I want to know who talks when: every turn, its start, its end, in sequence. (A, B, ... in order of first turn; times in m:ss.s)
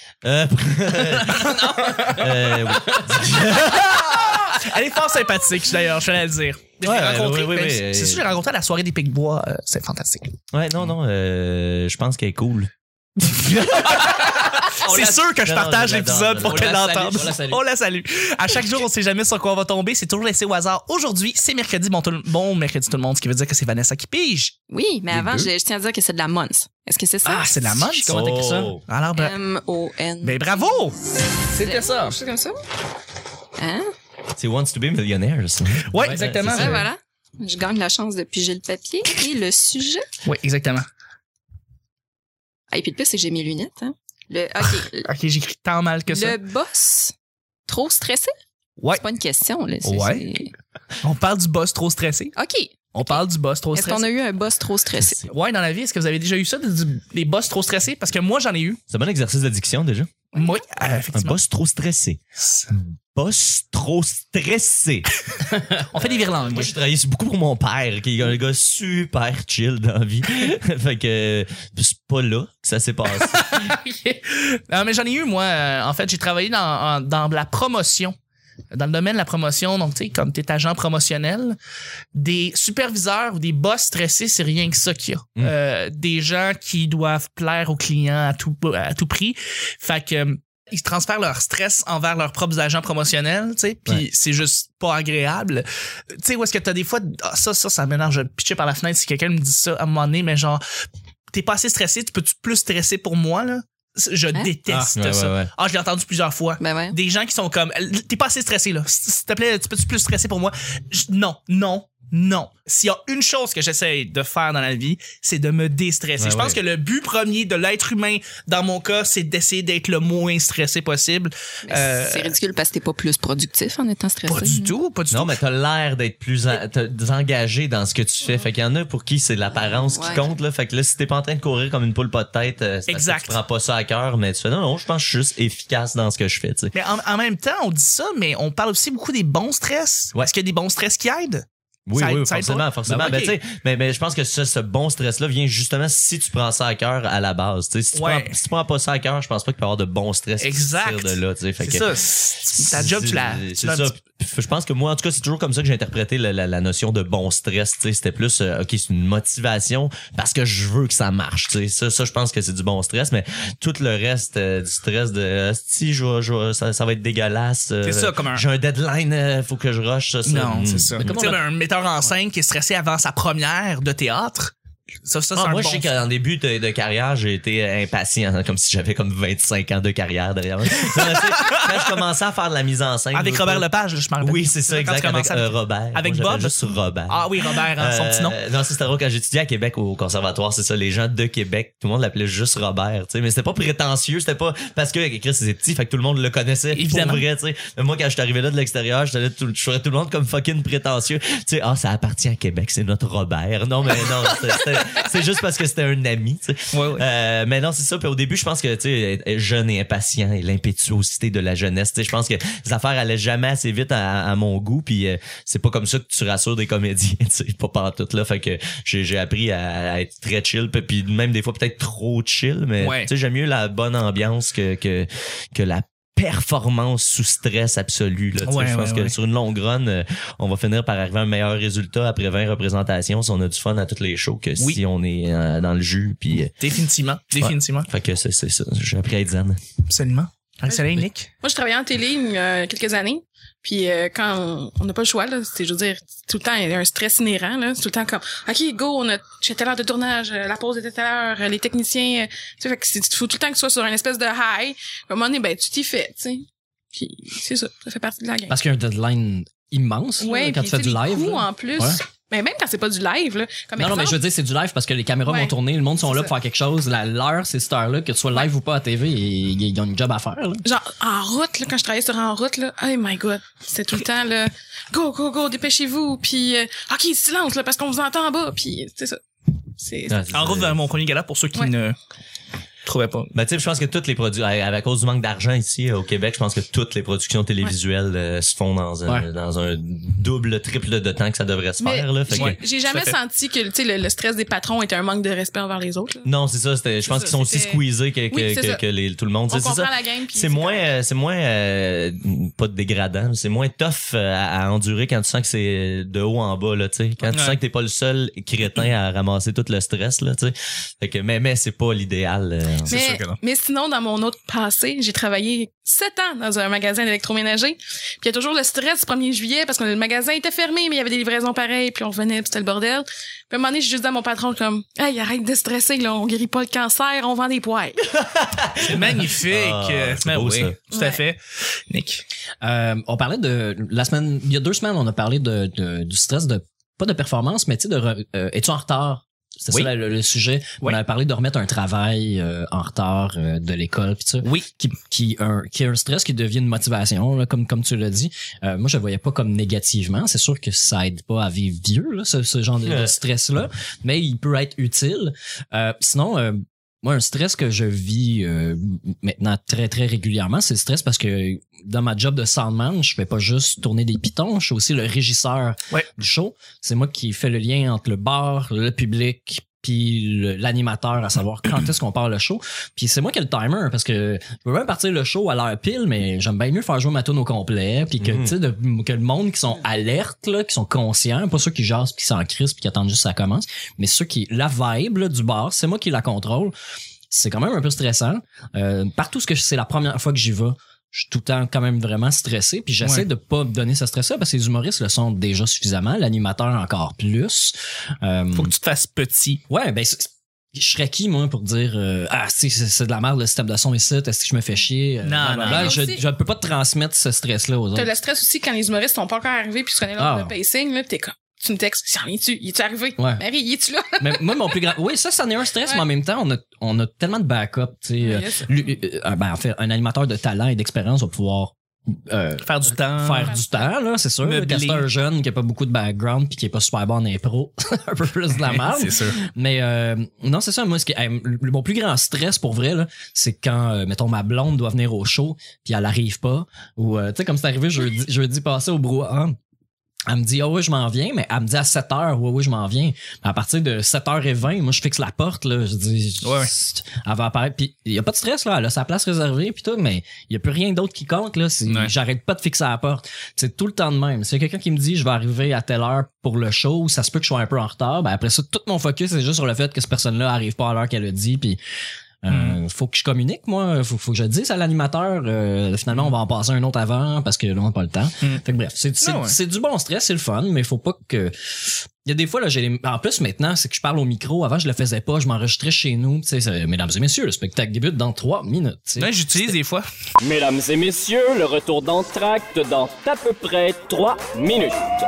0:00.2-0:04.6 A
0:01.2-0:03.3 B
0:04.3-0:10.3 C
0:06.8-0:08.3 A
0:10.5-0:17.3 A
0:13.6-0:24.6 C
0:16.4-0:17.6 B
0:24.7-0:27.6 D
0:25.1-0:25.5 A
0:27.2-0:28.8 B
0:27.4-0:28.2 C
0:28.1-0:28.8 A
0:28.9-0:29.4 C
0:29.2-0:30.9 D
0:30.2-0:31.0 C
0:31.5-0:32.2 C
0:31.5-0:32.6 D
0:33.6-0:33.9 D
0:34.4-0:36.8 A
0:35.9-0:36.9 C
0:36.0-0:36.8 B
0:36.5-0:40.0 D
0:40.2-0:40.9 C
0:42.7-0:45.1 D
0:45.0-0:46.4 C
0:46.1-0:47.1 D
0:47.7-0:48.3 D
0:48.8-0:49.0 C
0:48.9-0:50.5 D
0:49.8-0:50.2 C
0:51.0-0:52.4 C
0:52.4-0:55.3 D
0:52.9-0:54.1 C
0:55.3-0:58.8 C
0:58.9-1:00.1 A
1:00.3-1:01.4 C
1:01.1-1:05.1 A
1:05.5-1:05.8 B
1:05.9-1:06.8 C
1:06.0-1:13.8 A
1:13.2-1:18.2 C
1:18.7-1:21.6 C
1:22.2-1:40.6 C
1:41.3-2:02.4 C
1:44.7-1:45.5 A
1:46.6-1:47.0 D
1:56.2-1:56.6 A
2:01.7-2:04.8 D
2:04.3-2:05.4 C
2:05.1-2:16.8 A
2:09.9-2:10.2 D
2:12.9-2:13.4 C
2:16.8-2:21.5 C
2:21.9-2:51.4 A
2:22.0-2:23.4 C
2:28.0-2:28.4 C
2:30.4-2:33.9 C
2:47.8-2:48.4 C
2:50.3-2:54.5 C
2:51.0-2:51.4 B
2:55.0-2:55.9 C
2:55.3-3:03.7 A
3:00.8-3:01.6 C
3:03.1-3:08.4 C
3:04.2-3:56.6 A
3:16.8-3:17.2 C
3:26.7-3:27.0 C
3:42.8-3:43.1 C
3:48.4-3:49.1 C
3:56.6-3:57.9 C
3:57.4-3:59.6 A
3:59.9-4:01.3 C
4:01.4-4:18.6 E
4:18.5-4:22.0 B
4:20.2-4:24.2 E
4:23.8-4:30.6 B
4:25.3-4:26.3 E
4:30.6-4:39.2 E
4:39.8-4:40.3 E
4:40.1-4:40.8 A
4:40.3-4:42.0 C
4:42.8-4:43.3 C
4:43.3-4:52.6 A
4:51.8-4:56.3 E
4:52.3-4:53.2 C
4:56.2-5:12.9 A
4:57.1-4:58.8 E
4:59.5-5:00.9 E
5:07.3-5:07.6 C
5:12.9-5:13.4 C
5:12.9-5:28.0 E
5:28.1-5:30.8 A
5:28.8-5:32.2 C
5:30.9-5:31.2 E
5:32.6-6:26.7 B
5:52.8-5:53.1 A
6:18.2-6:18.5 A
6:27.3-6:38.7 B
6:38.5-6:39.6 C
6:39.7-6:48.1 B
6:45.2-6:46.0 C
6:45.6-6:46.2 E
6:48.0-6:54.8 E
6:50.2-6:50.5 B
6:53.2-6:53.4 B
6:54.2-7:19.6 B
6:58.2-6:58.7 E
7:02.6-7:03.6 C
7:03.4-7:03.9 E
7:04.4-7:05.1 C
7:08.6-7:09.4 C
7:20.3-7:41.8 B
7:26.4-7:26.7 C
7:31.9-7:32.1 C
7:42.4-7:59.4 B
7:42.5-7:42.8 C
7:49.2-7:49.6 C
7:59.2-8:00.0 C
8:00.4-8:05.0 F